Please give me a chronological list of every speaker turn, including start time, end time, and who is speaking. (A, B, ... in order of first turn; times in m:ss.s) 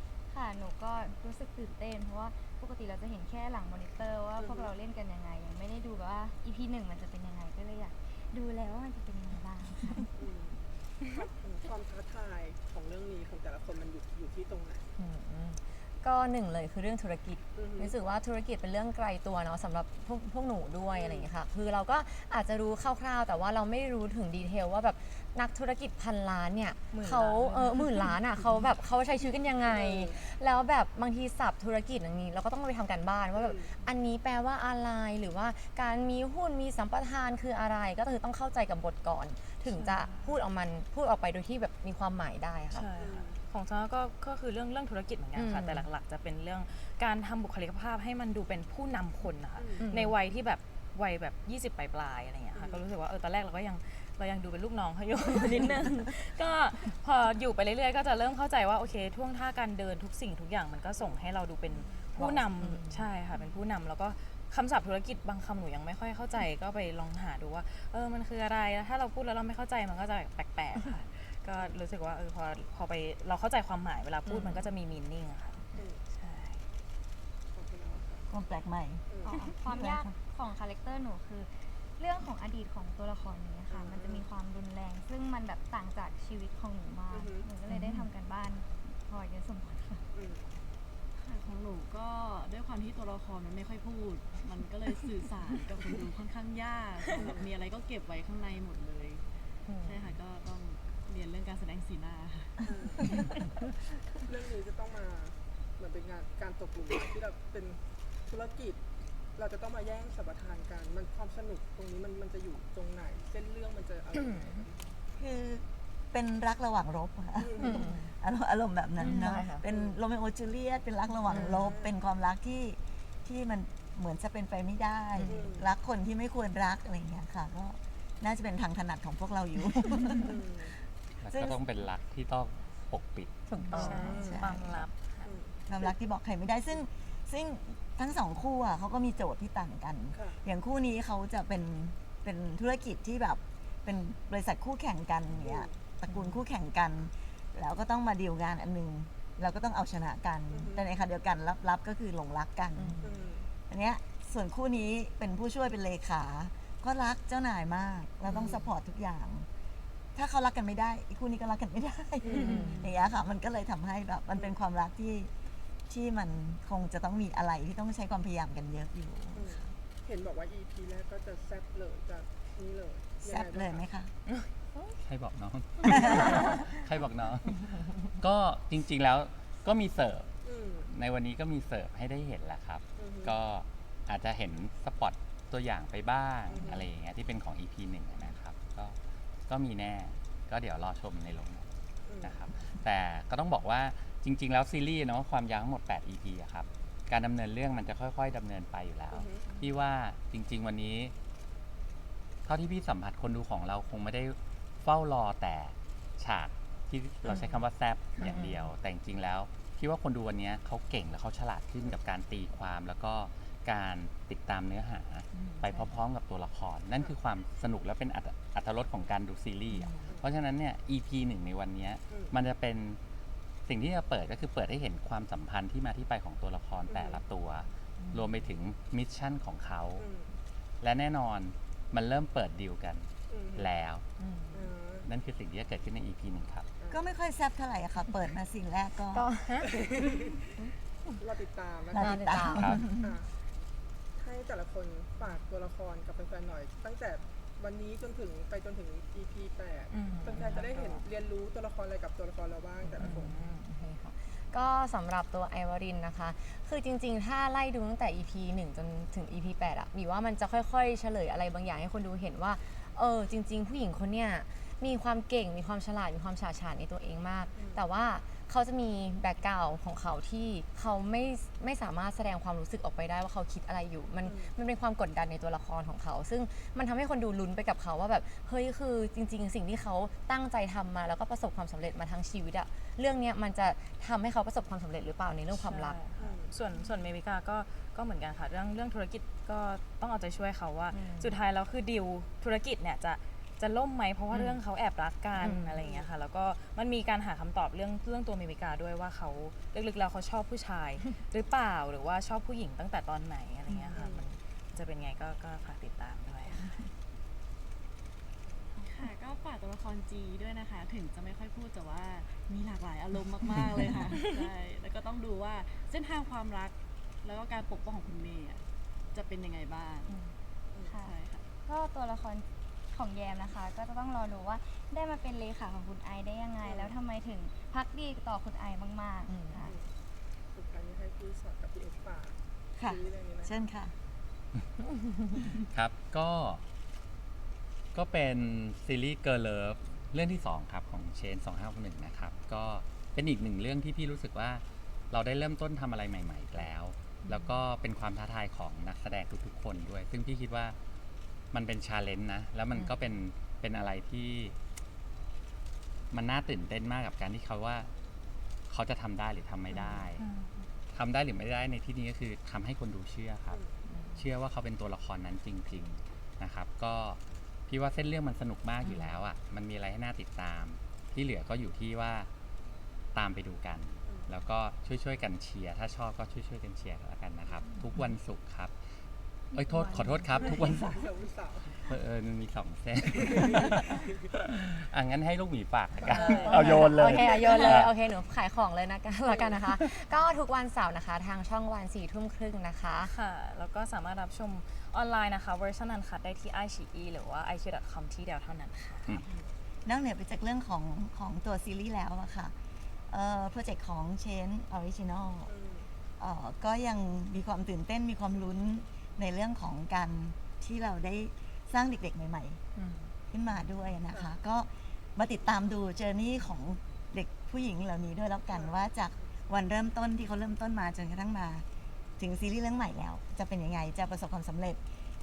0:00.3-0:10.1 A
0:04.4-0:04.7 B
0:10.2-0:14.9 B
0:15.0-0:42.9 C
0:17.5-0:17.9 B
0:20.9-0:21.3 B
0:26.9-0:28.1 D
0:29.6-0:30.2 B
0:33.3-0:33.7 B
0:39.6-0:40.4 D
0:42.7-1:16.6 D
0:43.0-0:43.4 B
0:45.4-0:45.9 C
0:49.6-0:49.9 B
0:49.8-0:50.1 C
0:52.5-0:52.8 B
1:02.2-1:03.1 C
1:14.2-1:14.7 C
1:15.8-1:16.0 B
1:17.5-1:18.2 B
1:18.3-1:20.0 E
1:19.1-1:19.4 B
1:19.2-1:30.0 A
1:23.7-1:24.3 B
1:27.1-1:27.5 B
1:27.7-1:28.0 C
1:30.1-1:30.5 B
1:31.2-1:39.2 F
1:37.1-1:37.5 B
1:39.7-1:40.1 C
1:39.8-1:43.2 F
1:42.6-1:43.2 B
1:44.2-1:48.8 B
1:49.4-1:54.8 B
1:55.2-2:10.4 E
1:57.4-1:57.8 B
1:57.6-1:58.1 C
1:59.0-1:59.6 C
1:59.6-2:00.0 B
2:01.3-2:01.9 B
2:05.3-2:05.7 B
2:10.2-2:10.7 B
2:11.2-2:13.3 G
2:11.3-2:11.6 E
2:13.5-2:14.2 C
2:13.7-2:15.3 D
2:13.8-2:14.8 E
2:14.0-2:14.4 B
2:15.2-2:15.6 B
2:15.7-2:33.0 E
2:20.1-2:20.4 B
2:25.3-2:25.8 B
2:26.1-2:26.4 C
2:30.5-2:30.9 B
2:32.7-2:33.2 C
2:33.0-2:33.5 B
2:33.7-2:39.5 E
2:38.3-2:38.7 B
2:40.1-2:45.3 E
2:42.2-2:42.8 B
2:42.3-2:42.8 C
2:42.4-2:42.8 D
2:45.9-2:49.7 E
2:49.3-2:53.8 B
2:53.2-2:54.1 E
2:54.3-2:54.8 D
2:55.0-3:00.3 G
2:55.9-2:56.2 E
3:00.4-3:00.9 B
3:00.9-3:09.0 G
3:03.0-3:03.3 B
3:06.5-3:06.8 B
3:09.5-3:11.7 G
3:12.0-3:12.3 B
3:12.2-3:21.1 G
3:19.1-3:19.4 B
3:22.4-3:43.0 G
3:27.3-3:27.6 C
3:28.2-3:28.7 C
3:35.4-3:35.9 C
3:39.7-3:40.1 C
3:42.1-3:42.3 B
3:43.7-3:50.0 G
3:46.9-3:47.2 B
3:48.0-3:48.3 C
3:50.0-3:50.3 B
3:50.8-3:54.0 G
3:53.3-3:53.8 B
3:54.2-3:54.5 C
3:54.5-3:55.1 B
3:55.0-3:56.7 G
3:56.8-3:57.0 B
3:56.9-3:59.3 E
3:59.1-3:59.7 C
3:59.7-4:00.3 B
4:01.2-4:02.1 B
4:01.9-4:03.1 E
4:02.0-4:02.8 C
4:02.5-4:02.8 G
4:03.0-4:03.3 B
4:04.2-4:13.3 B
4:09.9-4:11.0 D
4:12.8-4:46.0 C
4:13.0-4:13.6 D
4:27.5-4:27.8 B
4:34.2-4:34.5 B
4:45.5-5:06.9 D
4:46.2-4:46.5 B
4:50.9-4:51.3 C
4:54.3-4:54.6 C
4:55.3-4:55.7 C
4:55.8-4:56.1 B
5:03.7-5:03.9 C
5:03.9-5:04.2 B
5:08.4-5:08.7 B
5:08.8-5:20.2 F
5:20.7-5:21.0 B
5:20.8-5:29.7 A
5:20.9-5:21.5 F
5:26.6-5:26.9 B
5:29.2-5:29.6 C
5:29.6-5:29.9 B
5:30.5-5:33.5 B
5:32.8-5:33.9 E
5:35.5-5:36.6 G
5:37.9-5:50.8 G
5:47.3-5:47.6 C
5:51.5-5:54.5 G
5:52.7-5:53.0 C
5:56.1-5:57.9 G
5:58.7-6:00.2 G
5:59.7-6:00.1 C
6:00.2-6:00.6 D
6:00.9-6:03.6 G
6:03.5-6:03.8 B
6:04.2-6:12.3 G
6:08.8-6:09.1 D
6:13.1-6:18.8 G
6:14.0-6:14.3 B
6:19.5-6:21.1 G
6:20.3-6:21.9 B
6:21.7-6:28.0 G
6:26.0-6:33.1 C
6:26.1-6:26.9 D
6:26.2-6:26.6 B
6:33.0-6:39.2 D
6:39.8-6:42.5 E
6:43.1-6:45.5 E
6:45.4-6:45.9 B
6:46.2-6:52.6 E
6:52.8-6:53.1 D
6:53.3-7:01.6 E
6:58.5-6:58.8 B
7:02.2-7:04.8 E